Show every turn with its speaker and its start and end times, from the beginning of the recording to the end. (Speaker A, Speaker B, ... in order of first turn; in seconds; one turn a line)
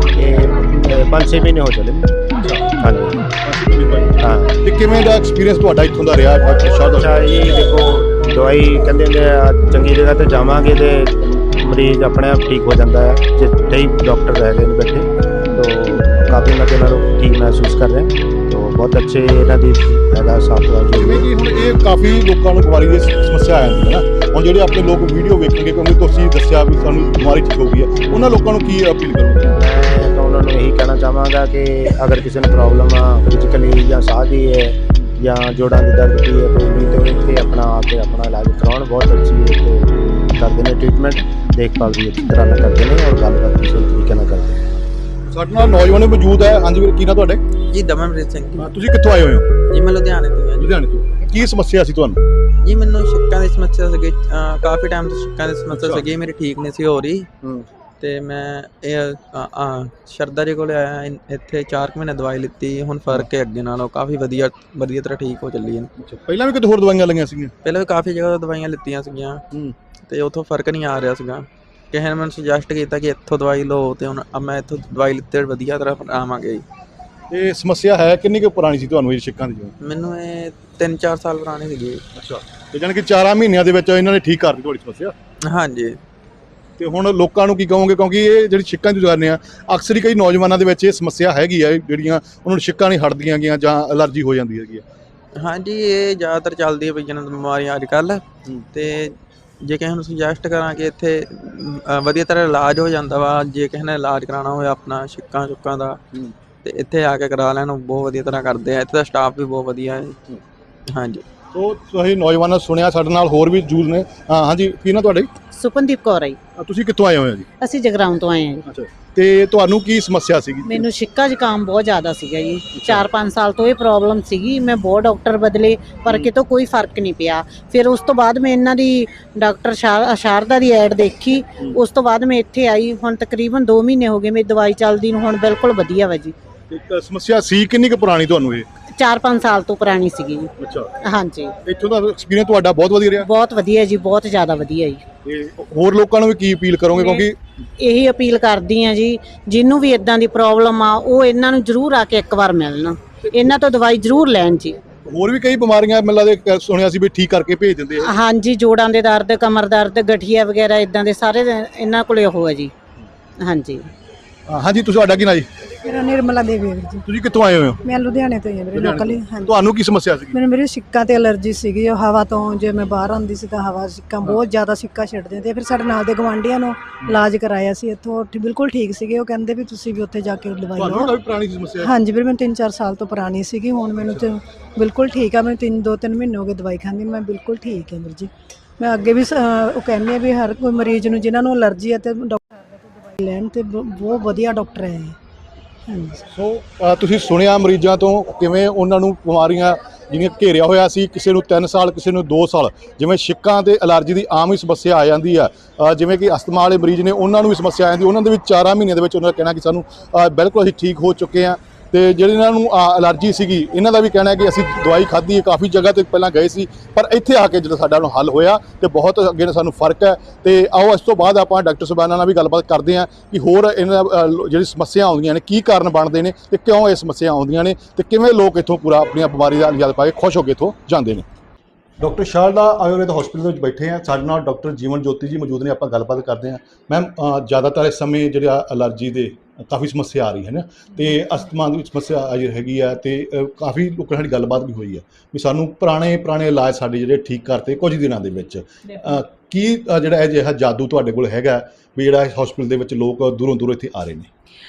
Speaker A: 0.1-2.1
Speaker B: 2.4-2.8
Speaker A: 2.8-3.2
Speaker B: 3.4-7.4
Speaker A: 4.2-4.5
Speaker A: 6.8-21.3
Speaker B: 21.0-29.6
Speaker A: 29.6-44.6
Speaker B: 45.3-47.4
Speaker C: 47.7-48.6
Speaker B: 48.6-49.5
Speaker C: 49.7-50.6
Speaker B: 50.6-52.2
Speaker C: 52.6-57.3
Speaker B: 55.7-56.1
Speaker C: 58.0-65.9
Speaker B: 66.0-67.5
Speaker C: 67.6-69.4
Speaker C: 70.1-76.7
Speaker B: 77.3-79.7
Speaker C: 79.8-82.0
Speaker B: 82.2-85.1
Speaker C: 85.5-86.0
Speaker B: 86.8-94.8
Speaker C: 95.4-98.2
Speaker C: 98.8-106.0
Speaker C: 106.6-110.2
Speaker C: 110.9-111.2
Speaker B: 111.5-115.3
Speaker D: 115.5-116.3
Speaker B: 116.6-117.5
Speaker D: 117.6-118.6
Speaker B: 118.7-120.9
Speaker D: 120.7-136.3
Speaker B: 122.8-123.1
Speaker B: 136.7-138.7
Speaker D: 139.0-140.5
Speaker B: 140.6-140.9
Speaker D: 141.1-141.5
Speaker B: 141.7-143.3
Speaker D: 143.3-145.0
Speaker B: 145.2-147.4
Speaker D: 147.8-154.8
Speaker B: 155.1-158.1
Speaker D: 158.2-162.7
Speaker D: 163.4-163.8
Speaker B: 164.5-165.5
Speaker E: 165.8-167.0
Speaker B: 167.1-167.8
Speaker E: 167.8-169.6
Speaker B: 168.7-170.4
Speaker E: 170.3-181.1
Speaker B: 180.8-181.9
Speaker E: 181.8-192.4
Speaker E: 193.0-195.2
Speaker E: 195.9-196.2
Speaker B: 196.3-231.2
Speaker B: 232.0-254.3